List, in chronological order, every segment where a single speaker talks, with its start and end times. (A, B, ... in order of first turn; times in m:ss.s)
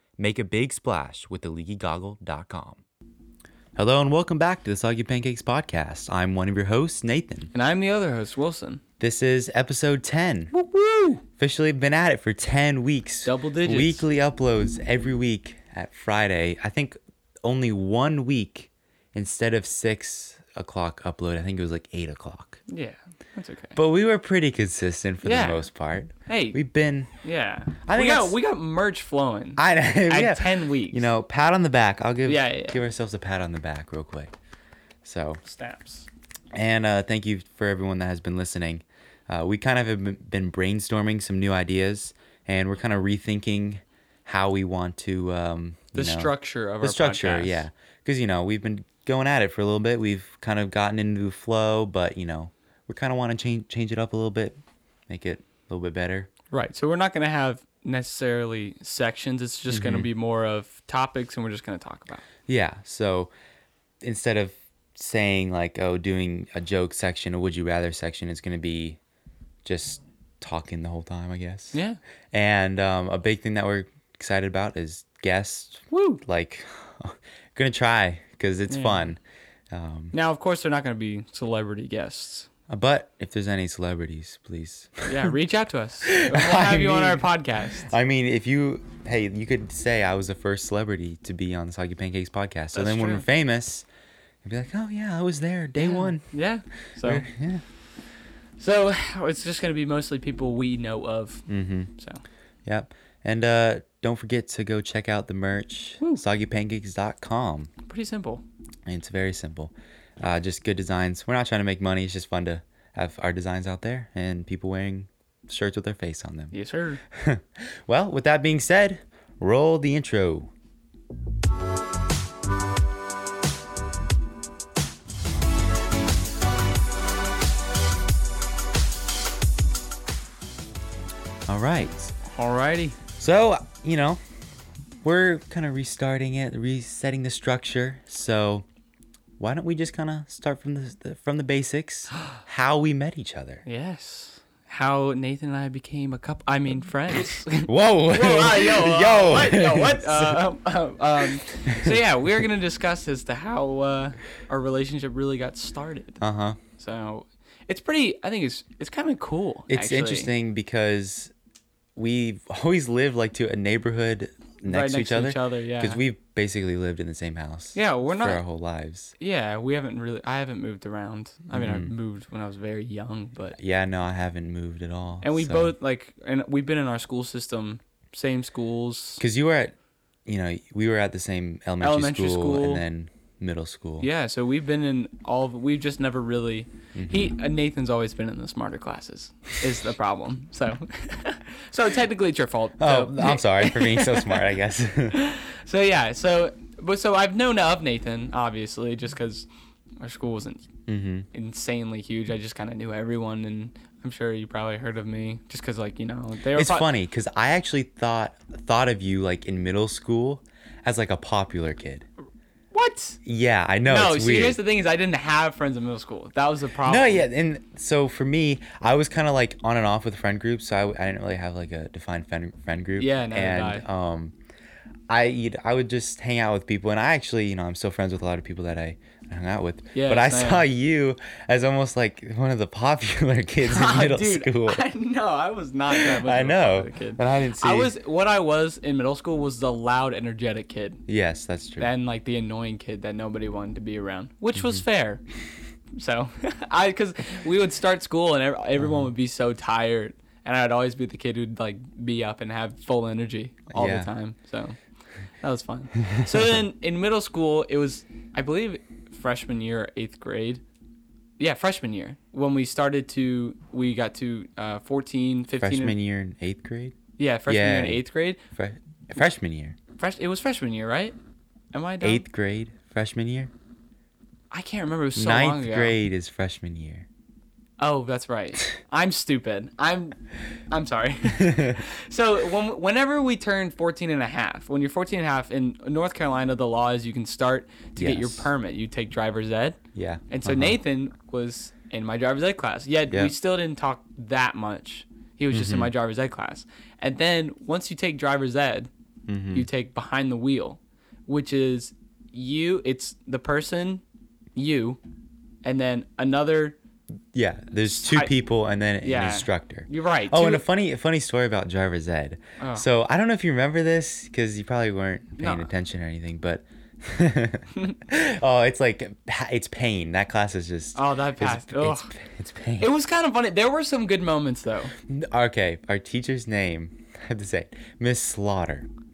0:00.2-0:02.8 A
0:03.8-0:07.5 A
0:07.5-0:08.8 B
0:09.0-0:10.5 A
0:10.5-0:11.2 B
0:11.3-0:22.6 A
0:13.2-0:14.0 B
0:22.7-0:23.8 B
0:23.8-0:27.1 A
0:25.2-0:25.7 B
0:26.3-0:26.6 B
0:27.2-0:31.1 B
0:27.8-0:28.4 A
0:29.6-0:34.3 A
0:32.3-0:32.8 B
0:35.0-0:35.4 A
0:35.4-0:36.1 B
0:36.5-0:54.6 A
0:45.9-0:47.6 B
0:55.1-0:56.3 A
0:56.5-1:02.2 B
0:59.7-1:00.1 A
1:02.5-1:03.3 A
1:04.0-1:09.0 A
1:09.6-1:11.8 A
1:11.7-1:12.0 B
1:12.3-1:19.2 A
1:15.9-1:16.2 B
1:18.7-1:19.0 B
1:19.7-1:20.1 A
1:20.1-1:22.5 B
1:22.7-1:25.1 A
1:25.1-1:27.9 B
1:26.0-1:27.3 A
1:27.9-1:33.8 A
1:32.7-1:33.2 B
1:34.4-1:36.2 A
1:35.8-1:37.2 B
1:37.0-1:37.6 A
1:38.6-1:42.2 B
1:41.5-1:41.9 A
1:42.6-1:47.7 A
1:47.9-1:48.4 B
1:48.9-1:56.5 A
1:56.5-1:57.0 B
1:57.1-2:00.5 A
2:11.5-2:12.1 A
2:12.3-2:13.0 B
2:13.2-2:14.2 A
2:15.0-2:18.6 A
2:19.4-2:23.6 A
2:23.7-2:36.2 B
2:27.6-2:30.4 A
2:31.5-2:32.0 A
2:36.2-2:36.6 A
2:36.8-2:40.3 B
2:39.7-2:41.3 A
2:42.0-2:49.1 A
2:44.6-2:46.0 B
2:47.8-2:48.4 B
2:49.2-2:53.6 B
2:51.5-2:51.9 A
2:53.6-2:55.7 A
2:55.2-2:59.2 B
2:59.2-2:59.7 A
3:00.3-3:04.1 A
3:01.8-3:02.8 B
3:04.0-3:14.5 B
3:07.0-3:07.3 A
3:12.8-3:15.2 A
3:15.1-3:19.5 B
3:20.0-3:20.7 B
3:20.9-3:21.3 A
3:21.3-3:26.9 B
3:26.5-3:32.1 A
3:32.7-3:33.2 B
3:33.2-3:34.6 A
3:33.8-3:37.2 B
3:36.8-3:44.3 A
3:43.0-3:43.8 B
3:45.1-3:54.8 A
3:50.0-3:50.6 B
3:53.6-4:01.0 B
3:55.9-3:57.9 A
4:01.1-4:01.9 A
4:01.8-4:05.2 B
4:04.6-4:04.8 A
4:05.9-4:14.8 B
4:13.7-4:14.1 A
4:15.4-4:20.6 B
4:16.0-4:16.3 A
4:21.4-4:25.9 B
4:25.6-4:28.0 A
4:27.2-4:28.4 B
4:28.6-4:29.8 A
4:30.0-4:31.2 B
4:31.7-4:32.2 B
4:32.0-4:33.5 A
4:34.5-4:36.0 B
4:35.2-4:37.1 A
4:37.8-4:40.2 B
4:40.7-4:49.8 B
4:41.4-4:41.8 A
4:48.0-4:48.5 A
4:50.0-4:50.8 A
4:50.3-4:58.9 B
4:55.5-4:55.9 A
4:59.3-4:59.7 A
4:59.5-5:04.0 B
5:04.6-5:05.0 B
5:05.6-5:06.8 B
5:07.3-5:22.9 A
5:08.0-5:08.3 B
5:09.0-5:10.6 B
5:12.6-5:12.8 B
5:15.4-5:15.7 B
5:21.0-5:22.1 B
5:22.8-5:24.9 B
5:25.1-5:28.9 A